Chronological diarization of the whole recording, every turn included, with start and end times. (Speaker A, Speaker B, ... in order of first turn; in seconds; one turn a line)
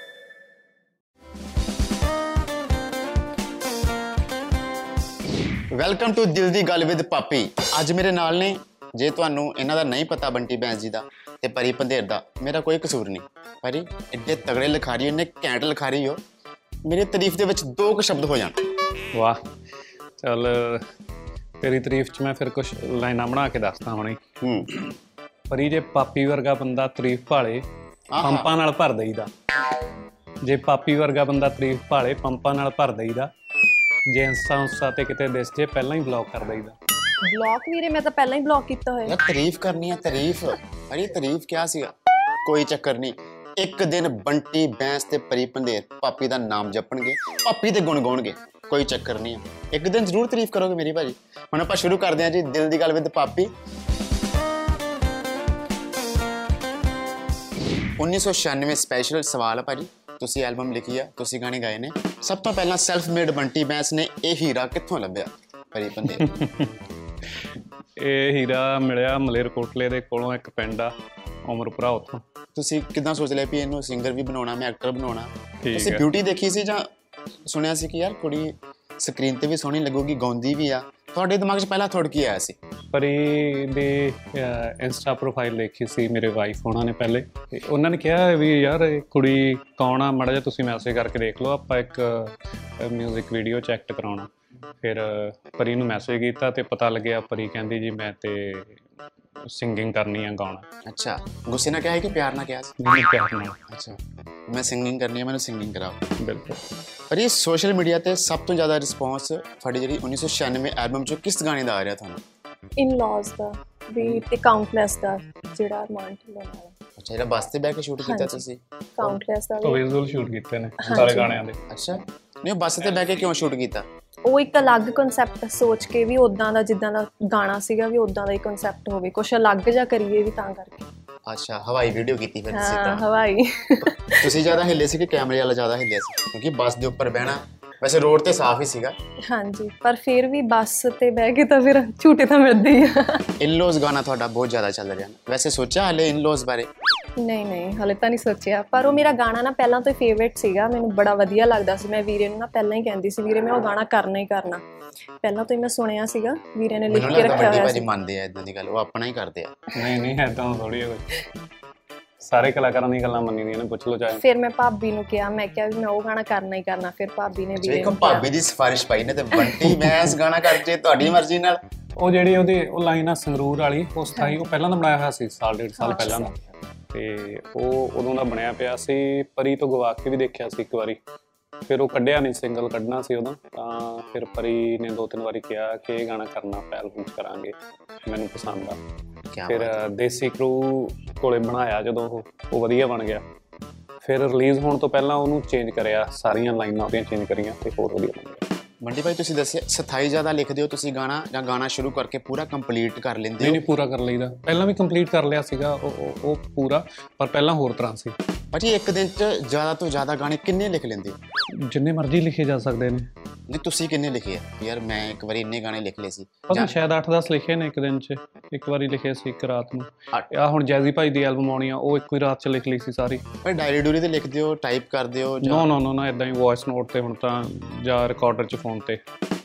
Speaker A: 5.8-16.2
Speaker A: 16.9-18.6
Speaker B: 19.1-19.4
Speaker B: 20.2-20.8
Speaker B: 21.6-24.2
Speaker A: 24.4-24.8
Speaker B: 25.5-27.7
Speaker A: 28.1-28.5
Speaker B: 28.2-29.3
Speaker B: 30.4-33.3
Speaker B: 34.1-36.8
Speaker C: 37.2-39.2
Speaker A: 39.1-41.9
Speaker A: 42.5-53.5
Speaker A: 58.0-66.3
Speaker B: 66.2-66.7
Speaker B: 67.4-71.0
Speaker B: 71.5-72.2
Speaker A: 72.5-76.9
Speaker B: 75.6-76.1
Speaker A: 77.5-82.6
Speaker B: 82.9-94.3
Speaker B: 94.8-98.8
Speaker B: 99.5-100.7
Speaker A: 100.8-102.7
Speaker B: 102.8-103.6
Speaker A: 103.7-106.0
Speaker B: 106.2-106.6
Speaker A: 107.1-112.2
Speaker C: 112.8-116.7
Speaker A: 117.0-118.6
Speaker C: 118.0-118.4
Speaker C: 119.0-119.8
Speaker B: 119.0-121.6
Speaker C: 120.8-121.3
Speaker A: 120.9-123.8
Speaker B: 122.8-123.3
Speaker C: 124.2-130.8
Speaker A: 131.3-133.1
Speaker C: 132.5-134.3
Speaker A: 134.1-138.9
Speaker C: 139.3-143.3
Speaker A: 143.4-146.7
Speaker C: 147.2-154.6
Speaker C: 155.2-157.9
Speaker A: 156.9-159.6
Speaker B: 159.8-161.1
Speaker B: 162.2-164.2
Speaker C: 164.1-168.3
Speaker A: 167.6-171.6
Speaker B: 169.6-170.0
Speaker B: 172.0-176.3
Speaker C: 175.8-176.5
Speaker B: 176.9-181.0
Speaker B: 181.7-188.8
Speaker A: 189.3-189.8
Speaker B: 189.5-193.2
Speaker B: 194.0-198.4
Speaker A: 198.8-203.6
Speaker B: 203.4-208.2
Speaker A: 208.5-211.2
Speaker B: 211.7-213.1
Speaker A: 213.5-216.8
Speaker B: 216.5-223.2
Speaker A: 223.4-225.7
Speaker B: 225.4-229.0